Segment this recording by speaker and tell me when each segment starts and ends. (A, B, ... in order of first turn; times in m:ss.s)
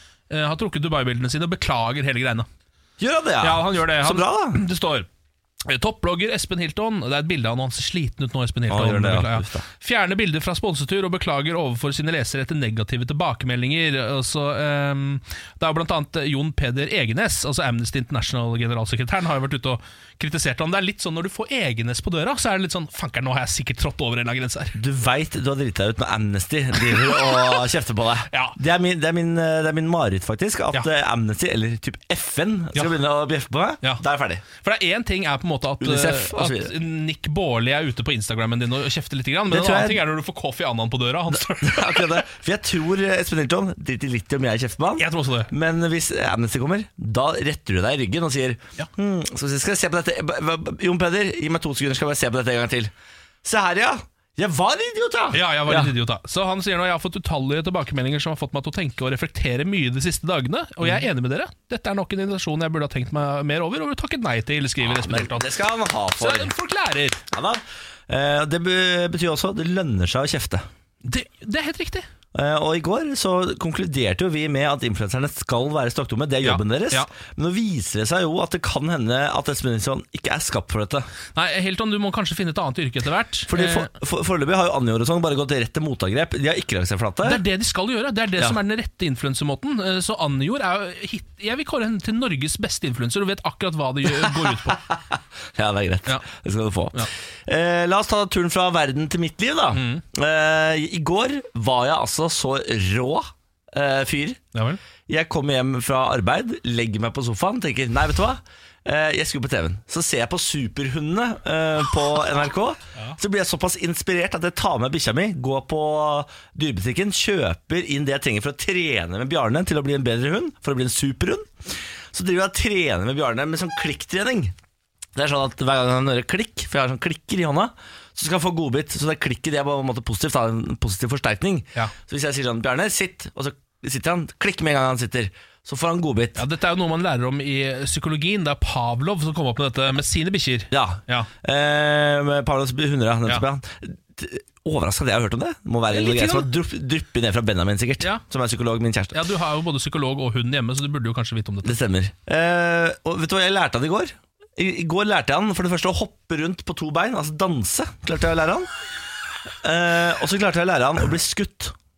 0:00.3-0:02.5 A
0:03.0-0:04.6 B
0:03.4-0:05.1 A
0:05.6-0:24.8 A
0:08.7-0:09.6 B
0:24.8-0:34.4 B
0:26.9-0:27.6 A
0:28.3-0:28.6 A
0:34.6-0:42.2 A
0:35.8-0:36.7 B
0:39.5-0:40.0 B
0:41.3-0:52.9 B
0:45.0-0:45.5 A
0:53.4-0:55.9 B
0:55.3-1:05.5 A
1:04.8-1:06.5 B
1:06.2-1:07.2 A
1:07.3-1:10.6 B
1:11.0-1:12.1 A
1:12.3-1:21.1 B
1:16.4-1:17.1 A
1:21.4-1:23.9 A
1:23.5-1:27.4 B
1:27.2-1:34.8 A
1:34.1-1:44.4 B
1:39.7-1:40.0 A
1:44.5-1:44.8 A
1:45.1-2:04.5 B
2:05.2-2:16.4 B
2:16.4-2:21.3 A
2:20.7-2:29.2 B
2:25.9-2:26.5 A
2:29.1-2:31.8 A
2:31.6-2:38.7 B
2:39.6-2:41.7 B